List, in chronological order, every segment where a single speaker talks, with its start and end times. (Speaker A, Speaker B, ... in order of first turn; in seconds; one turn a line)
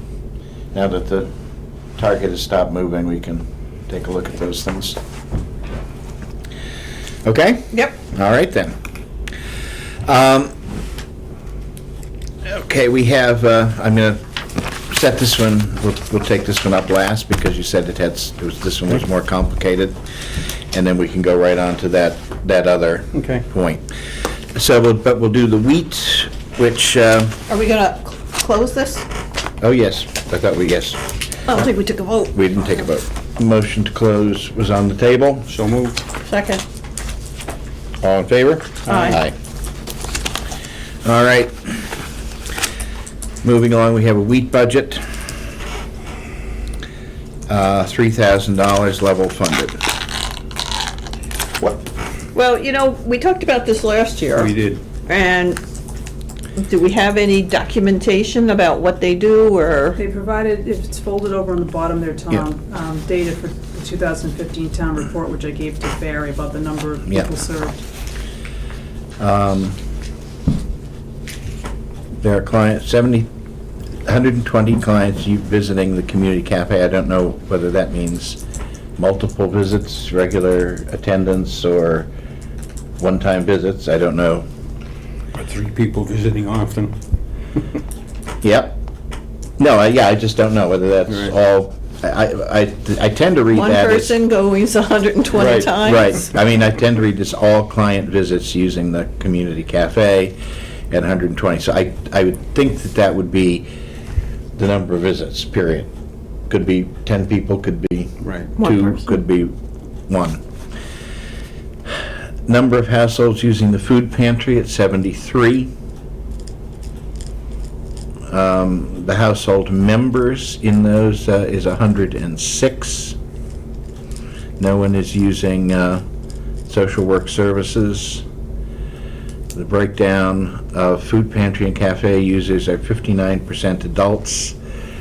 Speaker A: 0.7-1.3
Speaker A: 2.0-5.0
Speaker A: 7.2-8.8
Speaker A: 10.1-10.5
Speaker A: 12.4-20.0
Speaker A: 20.7-23.9
Speaker B: 23.1-23.4
Speaker A: 24.6-27.4
Speaker C: 27.5-29.1
Speaker A: 29.6-31.0
Speaker C: 31.5-32.4
Speaker A: 32.3-35.5
Speaker B: 35.5-36.0
Speaker C: 36.2-36.6
Speaker A: 38.0-39.4
Speaker B: 38.9-39.1
Speaker C: 38.9-39.2
Speaker A: 41.0-41.9
Speaker A: 43.4-45.0
Speaker A: 47.5-49.8
Speaker B: 51.6-51.9
Speaker C: 52.3-54.5
Speaker B: 54.3-54.8
Speaker C: 55.1-55.6
Speaker C: 56.6-60.0
Speaker D: 60.0-67.8
Speaker A: 69.2-69.8
Speaker A: 72.2-73.3
Speaker A: 74.0-78.4
Speaker A: 79.0-82.1
Speaker A: 83.0-84.5
Speaker B: 85.3-87.0
Speaker A: 88.4-88.8
Speaker A: 89.6-94.2
Speaker C: 93.5-96.2
Speaker B: 95.3-95.8
Speaker A: 95.8-100.4
Speaker A: 100.9-103.7
Speaker A: 104.6-105.9
Speaker A: 106.5-109.5
Speaker B: 108.2-108.5
Speaker C: 108.6-109.2
Speaker A: 110.1-110.4
Speaker A: 112.5-115.7
Speaker A: 118.3-123.2
Speaker A: 124.6-126.0
Speaker A: 126.7-128.2
Speaker A: 129.5-134.6